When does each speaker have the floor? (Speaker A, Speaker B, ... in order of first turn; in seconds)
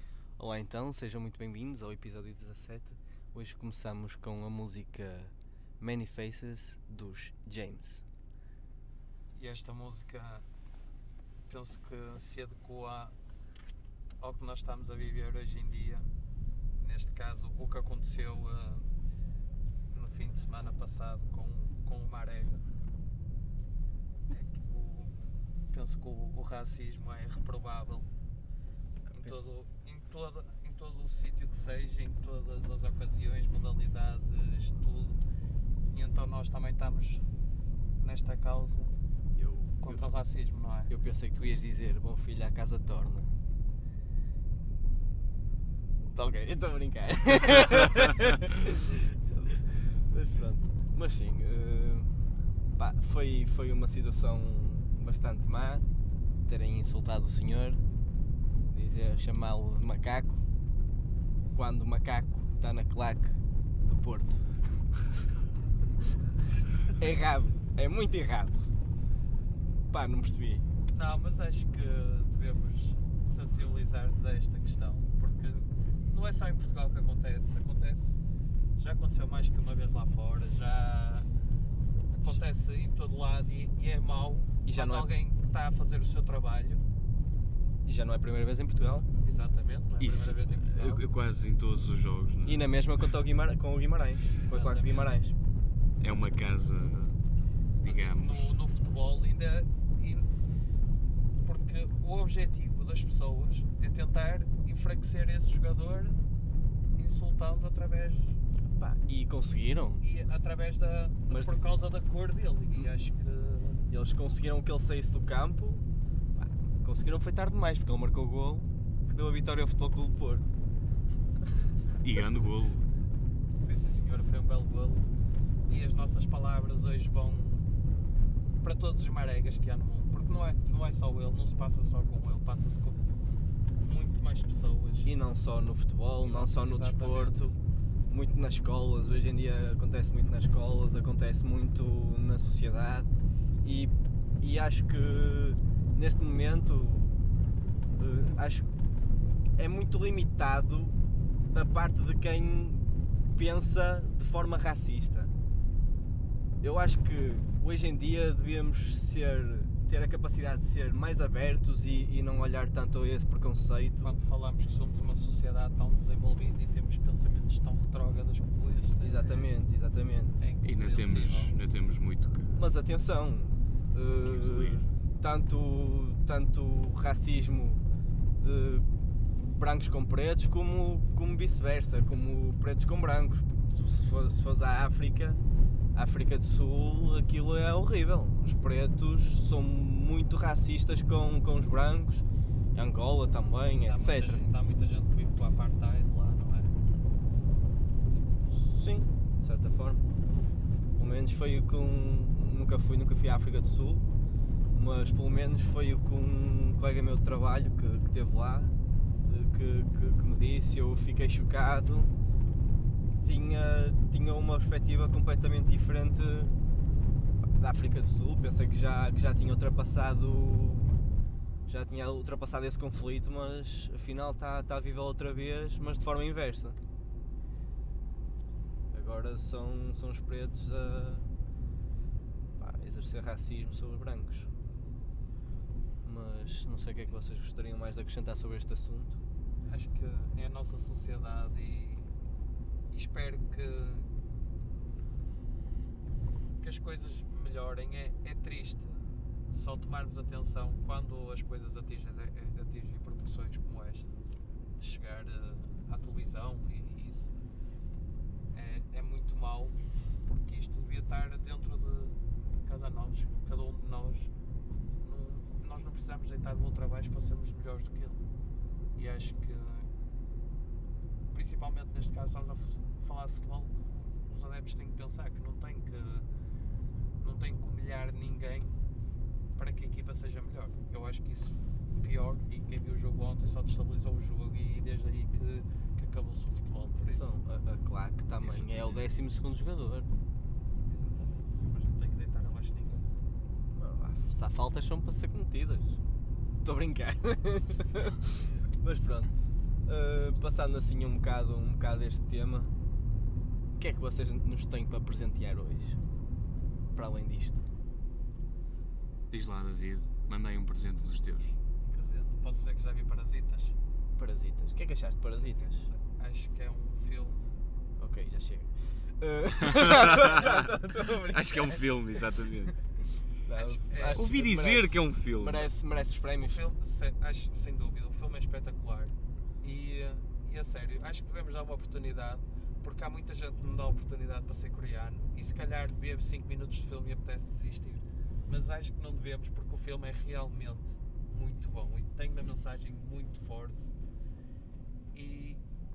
Speaker A: 0.4-8.0, 39.4-40.0, 40.9-43.3, 46.1-52.2, 52.8-55.9, 56.5-57.8, 58.7-60.4, 61.5-64.5, 66.9-68.7, 69.9-70.7, 84.7-85.1, 87.8-89.1, 92.4-95.3, 108.7-110.0, 111.3-111.6, 113.9-120.5, 135.0-137.6, 138.1-143.1, 143.6-147.2, 148.0-148.7, 149.6-151.0, 151.5-155.3, 156.6-164.2, 169.0-170.4, 172.6-177.8, 178.4-178.9, 179.4-185.4, 185.9-194.5, 198.5-200.0, 201.0-204.1, 204.8-208.8, 209.3-212.1, 213.2-216.6, 217.6-220.9, 221.7-226.8, 228.9-231.3, 232.6-234.5, 236.0-239.2, 287.0-290.1, 293.7-296.0, 296.6-299.3, 299.9-302.7, 303.8-306.0, 306.9-307.6, 314.2-315.8, 318.0-322.3, 323.4-326.6
Speaker B: 9.3-10.4, 11.5-13.2, 14.2-16.1, 16.8-18.9, 19.9-22.6, 24.3-28.1, 29.1-35.2, 35.9-37.3, 38.0-38.9, 39.8-40.9, 70.9-78.2, 78.8-81.3, 82.1-86.8, 89.2-91.0, 94.5-95.2, 97.8-100.3, 101.4-106.2, 107.0-108.4, 110.0-113.9, 123.6-125.1, 125.7-127.8, 128.6-133.1, 133.8-135.1, 136.2-137.5, 164.0-169.5, 170.4-171.6, 193.8-196.7, 239.7-242.1, 242.9-244.1, 246.6-254.1, 254.8-257.3, 258.5-264.3, 265.0-268.2, 268.9-269.9, 271.3-276.3, 277.2-278.8, 279.6-287.4, 288.4-289.0, 290.9-293.1, 311.8-313.8, 315.4-317.4, 323.5-324.2, 326.4-343.9, 345.1-345.6
Speaker C: 90.0-92.7, 96.0-97.2, 97.8-98.5, 122.0-122.8, 170.7-172.6, 174.2-174.8, 309.3-311.6, 319.7-322.8, 324.1-325.7